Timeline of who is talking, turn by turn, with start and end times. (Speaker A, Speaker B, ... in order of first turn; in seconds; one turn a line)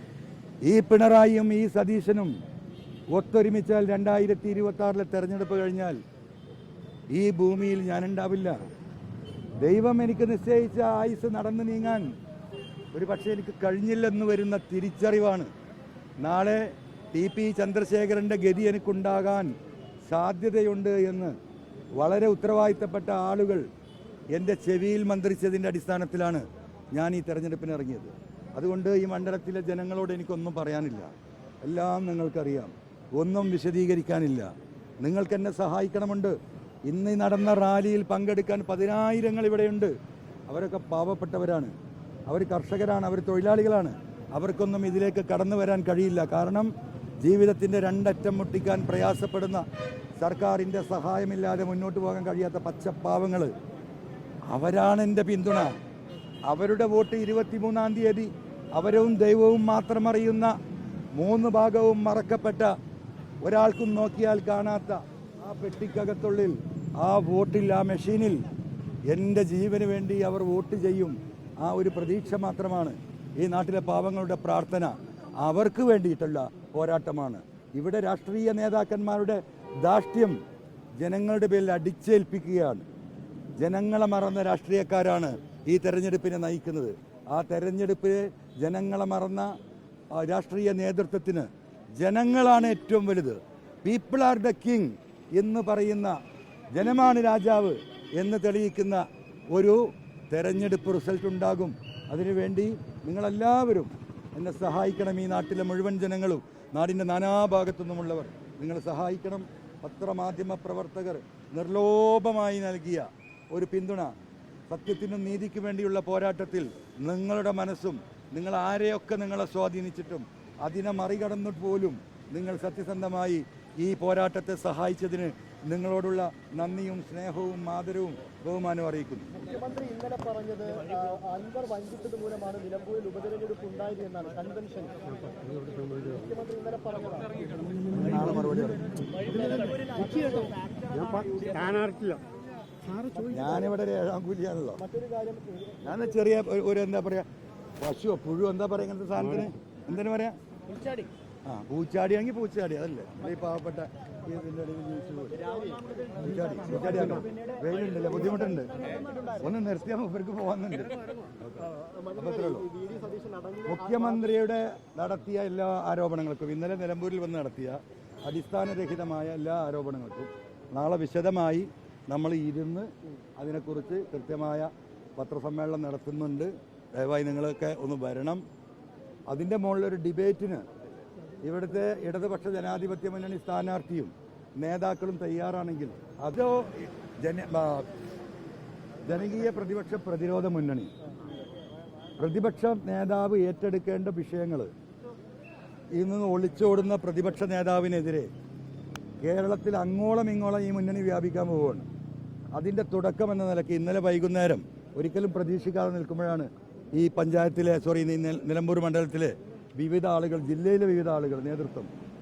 Speaker A: 0.6-2.4
Speaker A: 3.1-6.0
Speaker A: 7.1-8.6
Speaker A: 9.6-12.2
Speaker A: 12.9-15.5
Speaker A: 16.2-19.5
Speaker A: 20.1-21.4
Speaker A: 22.0-23.7
Speaker A: 24.3-31.1
Speaker A: 31.6-39.9
Speaker A: 40.5-41.7
Speaker A: 42.3-46.7
Speaker A: 47.2-49.6
Speaker A: 50.2-53.5
Speaker A: 54.5-55.8
Speaker A: 56.5-60.5
Speaker A: 61.1-62.8
Speaker A: 63.4-68.4
Speaker A: 69.1-80.4
Speaker A: 81.0-82.9
Speaker A: 83.6-89.5
Speaker A: 90.1-96.2
Speaker A: 96.8-114.1
Speaker A: 114.7-129.5
Speaker B: 129.5-137.6
Speaker A: 137.9-139.0
Speaker B: 139.2-142.2
Speaker A: 143.2-144.9
Speaker B: 144.9-145.8
Speaker A: 145.8-147.3
Speaker A: 147.8-150.4
Speaker A: 151.5-162.8
Speaker B: 155.5-155.8
Speaker B: 158.8-159.2
Speaker B: 162.9-163.6
Speaker A: 163.7-178.4
Speaker A: 179.3-180.7
Speaker A: 181.4-187.9
Speaker A: 189.0-190.9
Speaker A: 192.2-194.7
Speaker A: 195.9-198.3
Speaker A: 199.2-201.9
Speaker A: 202.5-211.9